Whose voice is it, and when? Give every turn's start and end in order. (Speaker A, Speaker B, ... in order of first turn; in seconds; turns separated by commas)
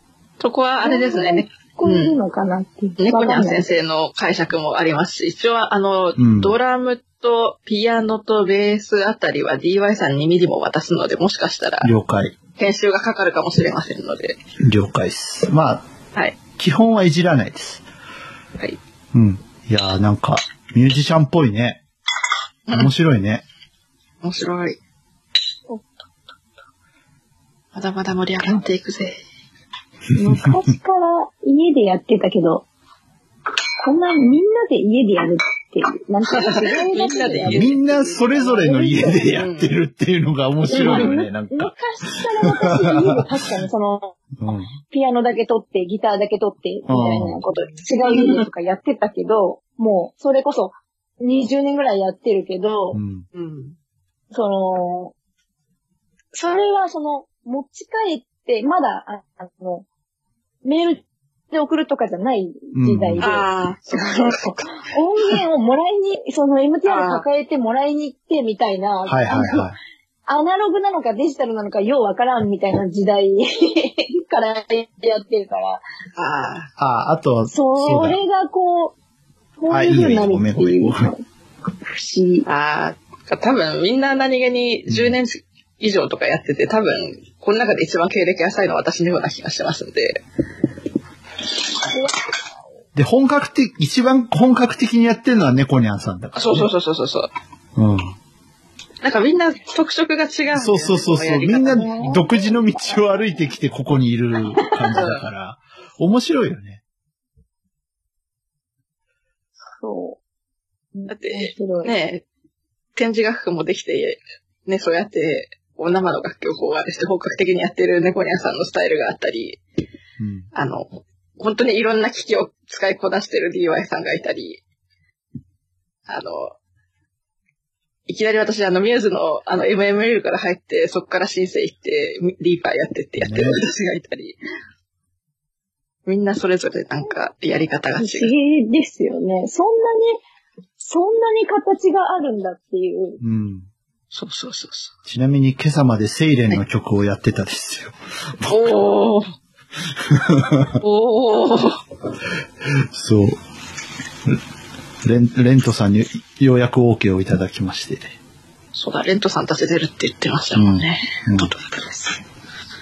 Speaker A: 0.4-2.1, Speaker B: 0.8-3.7, Speaker A: 3.0-11.9, Speaker C: 6.2-6.5, Speaker C: 11.8-12.3, Speaker A: 12.6-14.4, Speaker C: 14.6-15.9, Speaker C: 16.6-17.8, Speaker C: 19.1-21.8, Speaker C: 22.7-23.4, Speaker A: 24.2-24.8, Speaker A: 27.7-29.2, Speaker B: 30.1-32.6, Speaker B: 33.8-39.3, Speaker A: 36.3-38.4, Speaker C: 37.5-43.2, Speaker A: 39.3-39.7, Speaker B: 40.7-44.2, Speaker A: 40.7-41.1, Speaker C: 44.4-44.7, Speaker B: 44.8-53.0, Speaker C: 46.9-47.4, Speaker A: 48.0-48.5, Speaker C: 52.9-53.3, Speaker A: 53.3-53.8, Speaker B: 54.3-55.1, Speaker B: 56.3-59.9, Speaker B: 60.6-69.7, Speaker C: 62.7-63.3, Speaker A: 63.2-65.4, Speaker A: 66.9-67.2, Speaker C: 69.1-69.8, Speaker B: 70.3-75.8, Speaker A: 76.2-76.7, Speaker C: 76.8-78.2, Speaker B: 77.5-78.9, Speaker B: 79.6-81.2, Speaker C: 79.7-81.1, Speaker B: 81.9-82.5, Speaker A: 82.5-90.2, Speaker C: 84.9-85.2, Speaker C: 93.0-96.7, Speaker A: 96.3-97.3, Speaker C: 97.8-98.2, Speaker A: 99.0-101.9, Speaker C: 100.5-106.8, Speaker B: 101.7-102.2, Speaker A: 105.0-105.3, Speaker B: 109.8-110.2, Speaker B: 111.0-111.9, Speaker A: 111.1-112.2, Speaker A: 113.0-119.6, Speaker C: 120.2-120.5, Speaker A: 120.5-124.6, Speaker A: 126.1-126.5, Speaker A: 128.1-134.4, Speaker C: 133.2-133.6, Speaker A: 136.1-138.3, Speaker B: 138.0-140.2, Speaker B: 140.8-143.2, Speaker C: 143.2-143.7, Speaker A: 144.1-144.9, Speaker C: 145.1-148.8, Speaker A: 148.5-149.3, Speaker C: 150.0-150.8, Speaker A: 150.8-151.8, Speaker C: 152.7-153.4, Speaker C: 155.0-158.1, Speaker A: 158.7-162.2, Speaker C: 160.6-161.5